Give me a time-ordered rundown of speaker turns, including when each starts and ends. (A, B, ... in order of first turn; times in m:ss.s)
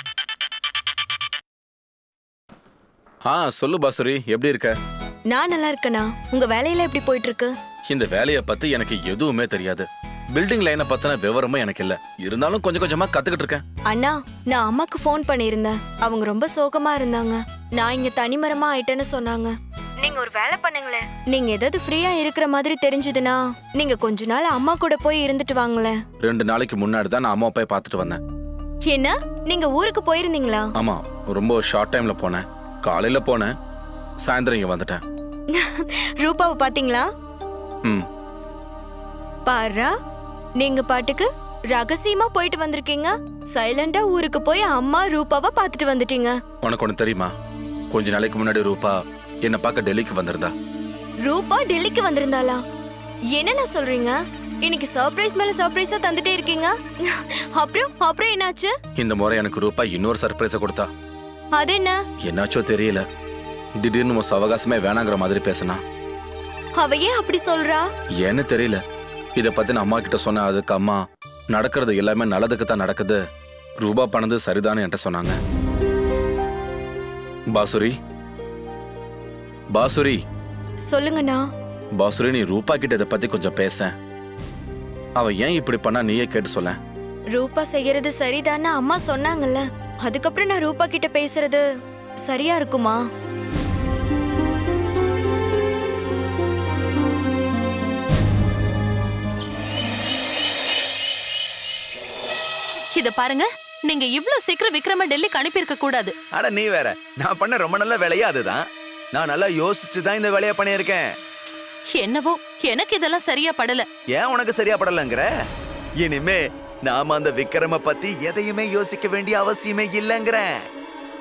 0:03.2-0:04.8 A
0:05.3-0:07.5 B
0:07.9-0:13.6 A
0:13.9-0:26.0 B
0:26.2-0:28.2 A
0:28.9-0:30.7 B
0:30.8-0:33.5 A
0:34.2-0:35.0 A
0:35.5-0:37.1 B
0:39.5-0:39.9 B
0:40.6-0:46.4 B
0:46.6-0:47.3 A
0:47.9-0:50.5 A
0:51.2-0:52.6 B
0:53.3-0:58.7 B
0:59.0-1:00.9 A
1:01.5-1:02.0 B
1:02.3-1:03.0 A
1:03.8-1:05.8 A
1:06.8-1:07.9 B
1:08.2-1:08.8 A
1:09.4-1:11.0 A
1:11.5-1:13.2 A
1:13.8-1:15.4 A
1:17.5-1:17.9 A
1:19.7-1:20.2 A
1:20.9-1:21.4 B
1:22.0-1:23.9 A
1:25.2-1:26.8 A
1:27.3-1:31.6 B
1:32.2-1:33.0 B
1:43.0-1:46.1 C
1:46.4-1:48.6 D
1:49.1-1:51.1 D
1:52.0-1:53.9 C
1:54.2-1:55.3 D
1:56.0-2:00.5 D